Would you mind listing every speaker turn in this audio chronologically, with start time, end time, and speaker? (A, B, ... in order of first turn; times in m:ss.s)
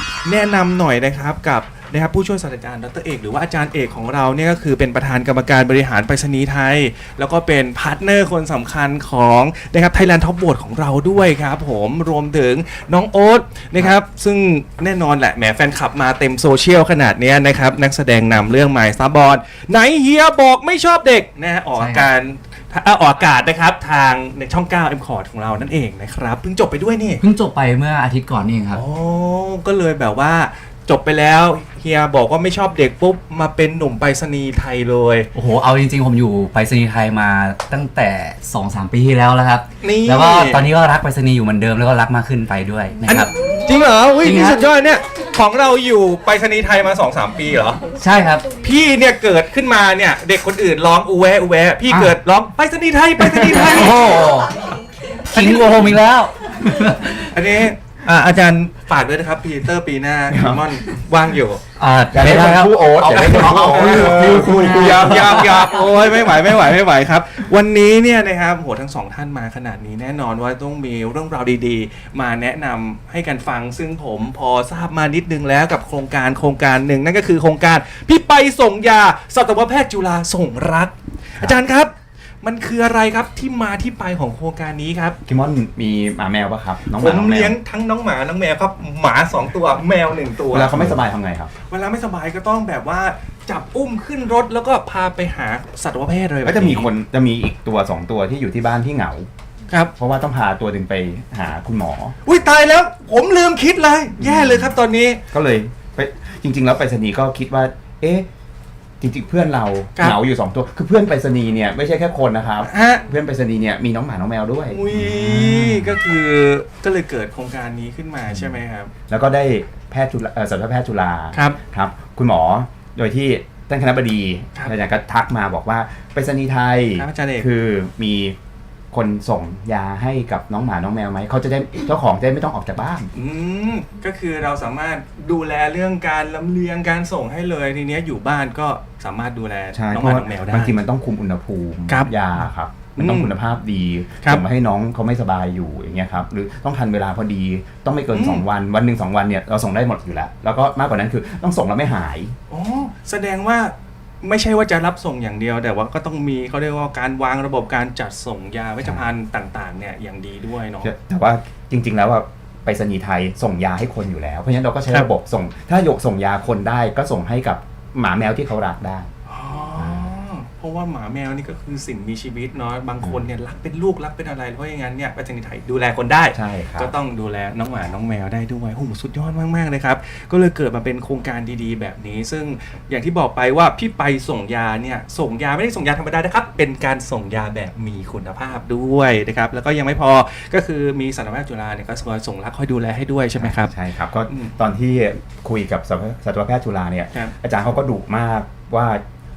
0:00.2-0:27.2 A
0:21.8-0:22.1 B
0:27.2-0:28.8 B
0:28.7-0:35.3 A
0:35.3-0:43.3 B
0:39.8-0:40.6 A
0:43.0-0:47.9 A
0:44.2-0:44.6 B
0:48.0-0:48.5 B
0:48.6-0:54.2 A
0:51.9-0:52.1 B
0:53.2-0:54.6 B
0:55.3-0:57.3 B
0:55.3-0:55.7 A
0:57.3-1:01.6 A
1:00.3-1:00.6 C
1:01.8-1:05.8 B
1:02.1-1:05.4 C
1:03.5-1:25.2 A
1:25.2-1:27.6 C
1:27.0-1:31.0 A
1:30.5-1:31.5 C
1:31.7-1:36.9 A
1:36.4-1:39.3 C
1:40.0-1:42.2 C
1:42.2-1:45.2 A
1:44.2-1:44.7 C
1:45.3-1:48.3 C
1:49.0-1:55.9 C
1:52.6-1:53.0 A
1:54.7-1:58.9 A
1:59.1-2:08.3 C
2:01.3-2:01.6 A
2:07.0-2:07.5 A
2:08.9-2:13.1 C
2:13.1-2:20.8 A
2:19.7-2:32.4 C
2:23.0-2:23.3 A
2:28.1-2:28.4 A
2:32.5-2:40.9 A
2:40.8-2:49.1 C
2:49.3-3:13.7 A
2:49.8-2:50.1 C
2:53.0-2:53.3 C
2:56.3-2:56.9 C
3:13.3-3:19.0 C